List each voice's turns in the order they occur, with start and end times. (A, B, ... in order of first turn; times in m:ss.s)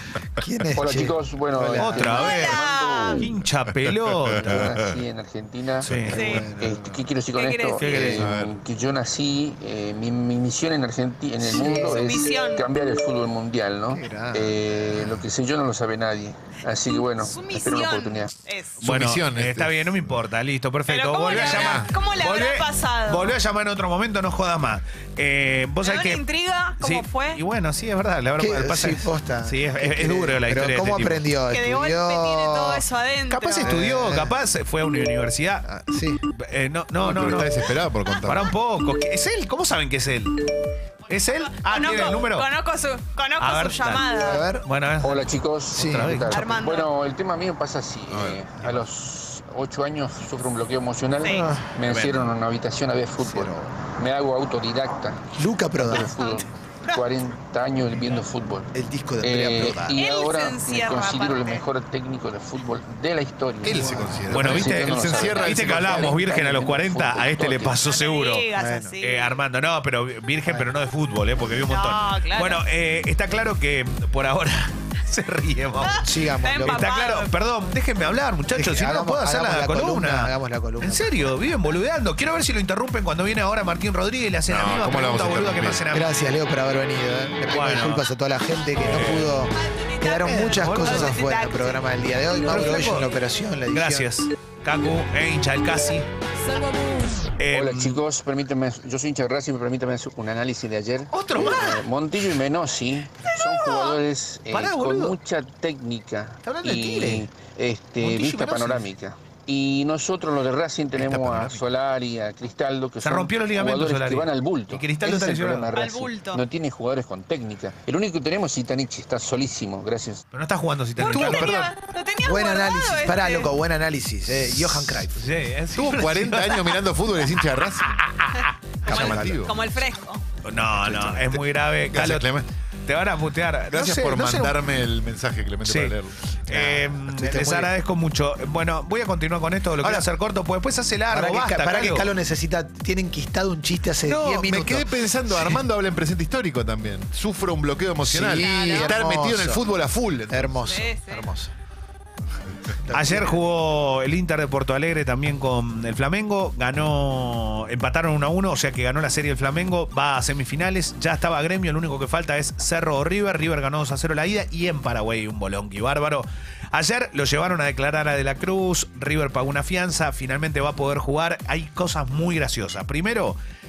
0:00.4-0:02.1 A
0:00.8-0:03.3 B
0:01.7-0:02.6 C
0:02.2-0:03.3 D
0:03.2-0:04.8 C
0:04.3-0:18.3 B
0:05.8-0:06.5 C
0:05.9-0:06.1 E
0:06.0-0:06.9 A
0:06.1-0:06.5 D
0:07.3-0:08.1 D
0:07.8-0:08.3 C
0:07.9-0:08.6 E
0:11.6-0:12.7 D
0:13.9-0:14.6 A
0:17.0-0:18.9 D
0:18.8-0:20.2 E
0:18.8-0:26.3 C
0:20.9-0:23.3 D
0:21.2-0:21.9 E
0:25.8-0:27.4 D
0:26.8-0:31.4 C
0:28.4-0:32.9 A
0:31.4-0:33.7 D
0:33.3-0:35.7 C
0:33.6-0:34.4 A
0:35.6-0:36.2 A
0:36.3-0:37.6 C
0:37.0-0:38.5 E
0:38.2-0:40.4 C
0:41.1-0:42.5 C
0:41.6-0:44.4 D
0:43.4-0:46.4 C
0:44.2-0:44.7 A
0:45.0-0:55.2 B
0:45.8-0:46.1 A
0:46.3-0:46.9 D
0:48.1-0:48.4 E
0:51.8-0:52.3 C
0:53.2-0:53.7 A
0:55.3-0:56.2 A
0:55.8-0:58.7 B
0:56.2-0:57.1 D
0:58.7-1:00.0 A
0:59.2-1:07.8 B
0:59.9-1:01.7 D
1:03.6-1:06.2 E
1:03.7-1:04.2 A
1:04.3-1:16.1 C
1:07.8-1:09.4 D
1:08.6-1:09.0 A
1:11.6-1:12.6 D
1:15.8-1:17.3 D
1:16.0-1:16.9 A
1:16.6-1:26.1 C
1:18.5-1:21.3 A
1:24.5-1:25.8 E
1:25.9-1:34.1 A
1:27.5-1:28.1 C
1:28.8-1:29.4 C
1:29.6-1:31.8 D
1:30.2-1:31.2 C
1:32.5-1:33.1 C
1:33.7-1:36.1 C
1:37.4-1:38.0 C
1:37.5-2:00.2 B
1:41.1-1:41.9 C
1:43.2-1:45.2 C
1:46.4-1:47.2 C
1:48.0-1:48.9 C
1:50.9-1:51.6 E
1:53.0-1:55.8 C
1:55.7-1:56.4 D
2:00.3-2:01.7 C
2:01.0-2:01.8 E
2:01.0-2:03.5 D
2:02.2-2:05.2 A
2:04.5-2:06.8 C
2:05.7-2:08.0 E
2:07.9-2:08.9 C
2:08.8-2:09.4 A
2:08.9-2:09.6 E
2:08.9-2:10.2 D
2:10.4-2:14.6 C
2:10.6-2:12.5 E
2:13.7-2:16.3 E
2:15.6-2:22.1 C
2:16.5-2:17.7 A
2:21.1-2:25.6 A
2:24.0-2:30.8 E
2:28.1-2:29.6 A
2:28.3-2:29.0 D
2:30.3-2:31.5 A
2:30.6-2:31.3 D
2:32.8-2:33.4 A
2:32.9-2:53.4 C